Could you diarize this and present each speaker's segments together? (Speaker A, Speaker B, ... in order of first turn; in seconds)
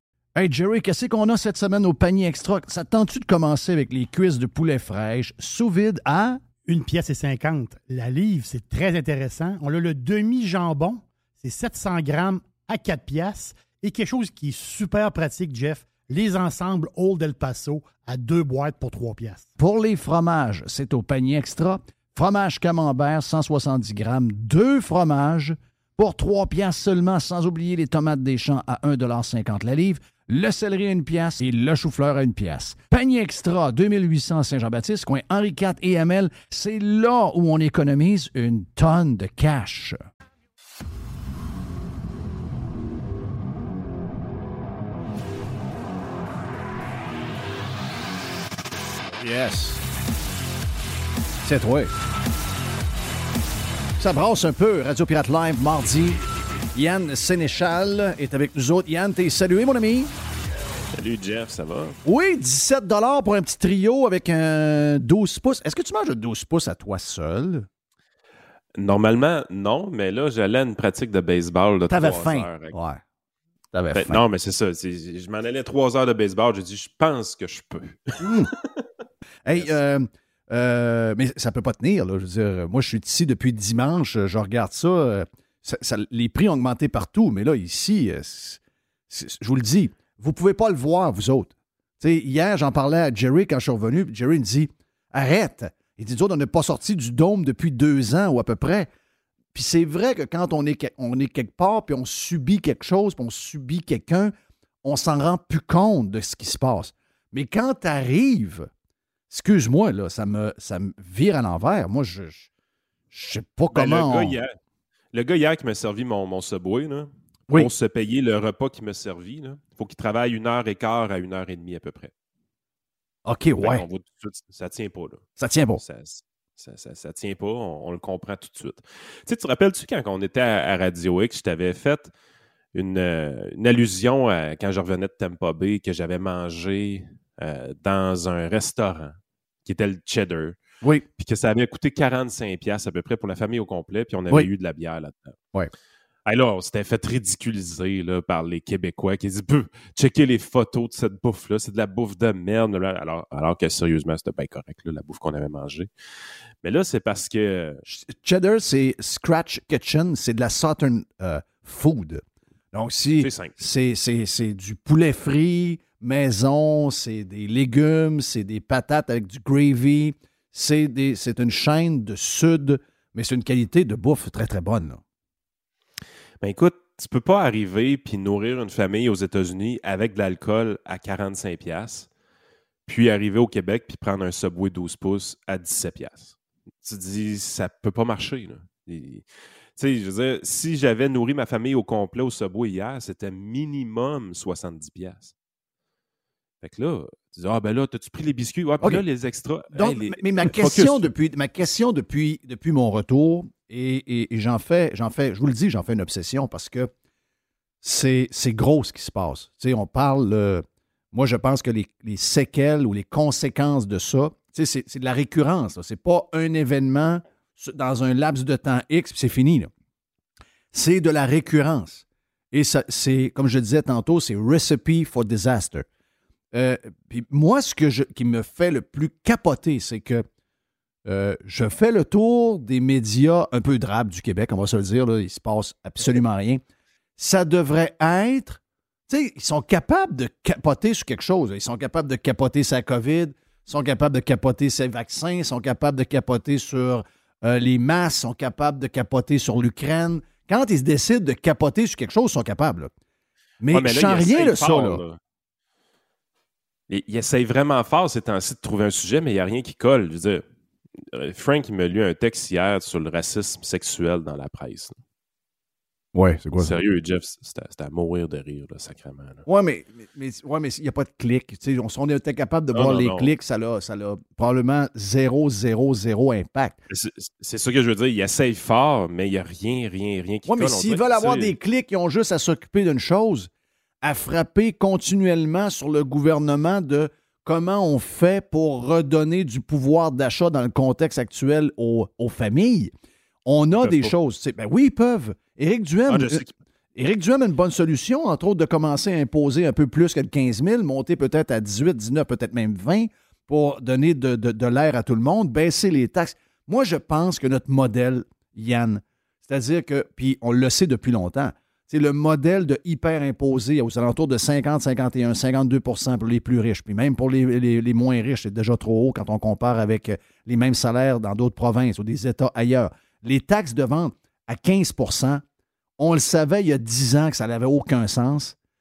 Speaker A: 0.3-6.4, 19.6-40.0, 49.2-49.8, 51.4-51.9, 54.0-56.2, 56.7-60.1, 62.0-67.7, 71.9-73.0, 73.7-74.2, 78.2-78.5, 79.5-88.6, 89.1-98.9, 99.5-104.3, 104.8-108.7, 109.3-112.5, 113.1-114.4, 123.2-123.8, 125.4-125.8, 157.8-162.2, 162.7-175.0, 199.7-206.9, 207.8-219.7, 220.7-225.8, 226.5-230.2, 231.0-236.6, 237.2-252.9, 253.6-255.0, 266.1-266.8, 269.4-276.8, 280.5-283.5, 284.0-292.9, 293.4-296.4, 296.9-325.4, 326.0-328.5
Speaker B: 6.7-19.5
Speaker C: 60.9-62.0, 68.8-72.8, 73.9-78.8, 113.7-114.5, 115.1-122.1, 123.6-125.2, 125.8-132.1, 132.7-140.6, 141.2-145.3, 146.2-155.9, 156.6-157.8, 163.2-163.6, 176.4-182.1, 182.9-195.3, 196.6-201.1, 253.7-255.2, 256.9-260.4, 261.1-265.0, 266.6-269.4, 272.7-273.3, 276.9-281.5, 293.8-294.1, 296.1-296.5